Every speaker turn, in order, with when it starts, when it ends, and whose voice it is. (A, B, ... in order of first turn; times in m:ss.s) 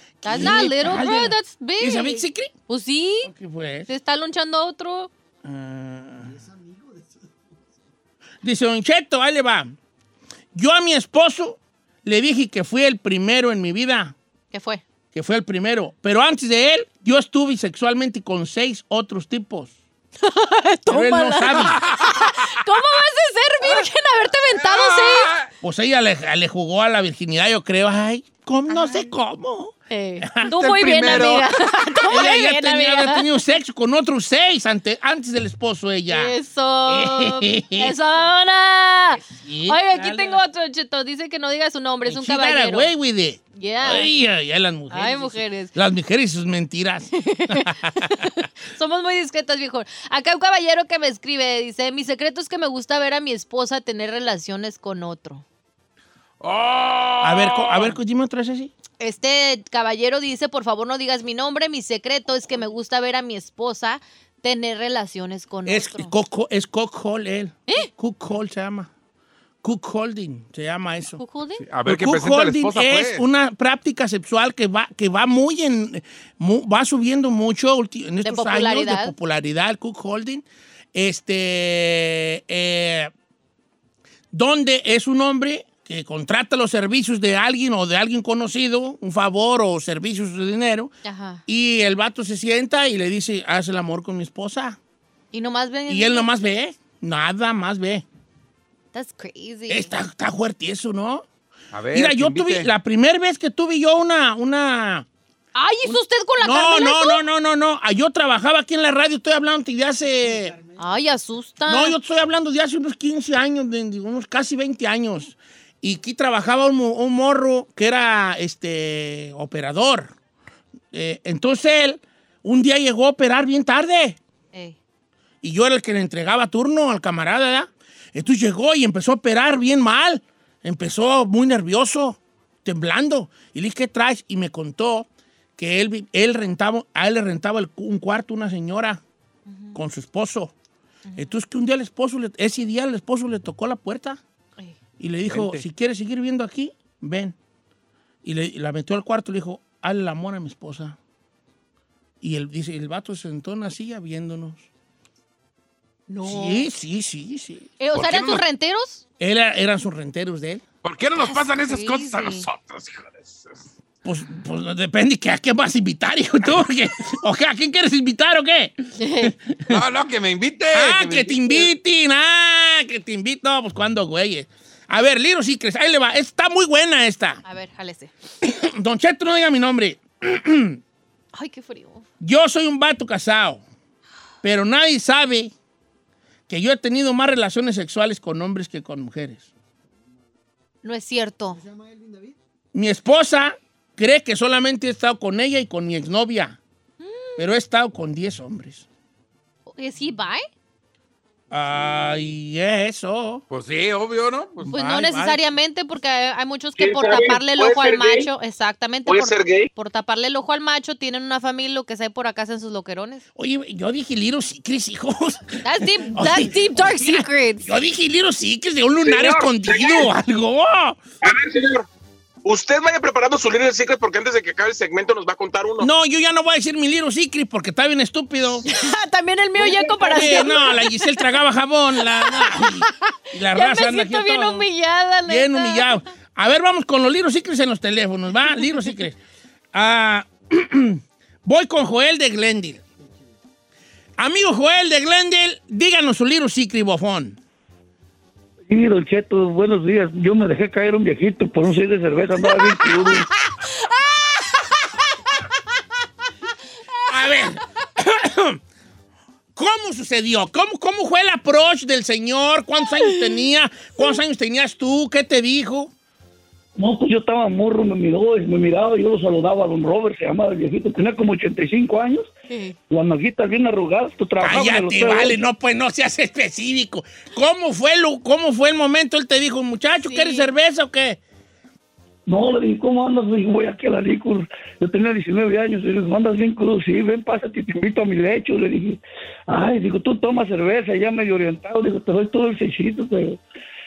0:00.2-0:02.5 A
0:00.2-0:03.3 B
0:03.2-0:03.9 A
0:03.9-0:05.1 B
0:05.4-0:06.4 A
0:08.4-0:09.7 A
0:10.5-0:14.1 A
0:14.5-0:14.8 B
0:15.1-0:19.7 A
0:20.2-0:25.3 B
0:20.9-0:21.8 A
0:21.8-0:22.2 C
0:24.5-0:25.5 C
0:25.6-0:31.2 A
0:28.7-0:29.1 B
0:29.9-0:33.3 B
0:30.5-0:31.5 C
0:32.0-0:36.3 A
0:36.1-0:42.9 B
0:36.9-0:37.9 A
0:39.1-0:40.4 A
0:42.0-0:48.3 A
0:43.6-0:44.1 B
0:44.9-0:45.7 B
0:47.2-0:55.4 B
0:56.4-0:58.0 C
0:57.2-0:58.7 A
0:59.0-1:06.1 B
1:05.6-1:08.9 A
1:09.6-1:11.2 A
1:11.2-1:11.6 B
1:11.6-1:13.2 C
1:11.8-1:23.1 A
1:18.2-1:19.1 B
1:24.3-1:30.9 A
1:31.0-1:31.4 B
1:31.5-1:34.8 A
1:35.3-1:36.4 B
1:35.9-1:38.0 A
1:38.9-1:39.9 B
1:39.7-1:41.2 A
1:41.7-1:42.7 C
1:41.9-1:45.0 A
1:45.5-1:47.2 B
1:45.8-1:50.6 A
1:50.8-1:52.0 B
1:51.6-2:00.1 A
2:00.9-2:04.2 A
2:05.4-2:19.0 A
2:19.5-2:19.8 B
2:19.7-2:20.5 A
2:21.0-2:21.3 B
2:21.2-2:24.2 A
2:25.0-2:27.3 A
2:25.3-2:25.6 C
2:28.2-2:31.0 A
2:32.2-2:34.7 A
2:36.1-2:36.7 B
2:36.2-2:37.7 A
2:37.8-2:39.0 B
2:37.9-2:38.4 C
2:39.2-2:40.6 A
2:40.8-2:43.6 C
2:41.2-2:42.4 B
2:44.0-2:49.8 A
2:49.0-2:49.3 B
2:49.7-2:51.7 C
2:50.7-2:57.4 A
2:57.4-2:58.1 B
2:58.4-3:00.8 A
3:01.3-3:02.0 B
3:02.2-3:03.6 A
3:04.4-3:05.5 A
3:06.5-3:09.5 A
3:10.8-3:11.6 B
3:12.7-3:16.6 A
3:17.0-3:17.5 B
3:17.4-3:18.8 A
3:19.7-3:20.4 B
3:21.5-3:23.4 A
3:23.5-3:24.7 C
3:24.6-3:25.4 A
3:24.7-3:33.2 B
3:26.8-3:28.3 D
3:29.0-3:29.7 D
3:33.4-3:41.0 A
3:35.6-3:37.7 B
3:39.0-3:40.1 D
3:41.2-3:41.8 D
3:42.4-3:45.9 D
3:45.8-3:48.6 A
3:48.6-3:51.3 B
3:50.0-3:54.7 A
3:52.0-3:56.0 B
3:55.2-3:59.2 A
3:59.7-4:02.8 A
4:04.2-4:07.4 A
4:08.7-4:13.3 E
4:17.1-4:18.6 A
4:19.5-4:25.9 A
4:26.8-4:32.3 E
4:32.5-4:32.8 B
4:32.9-4:35.4 E
4:34.4-4:41.2 A
4:40.0-4:40.5 B
4:42.3-4:53.4 E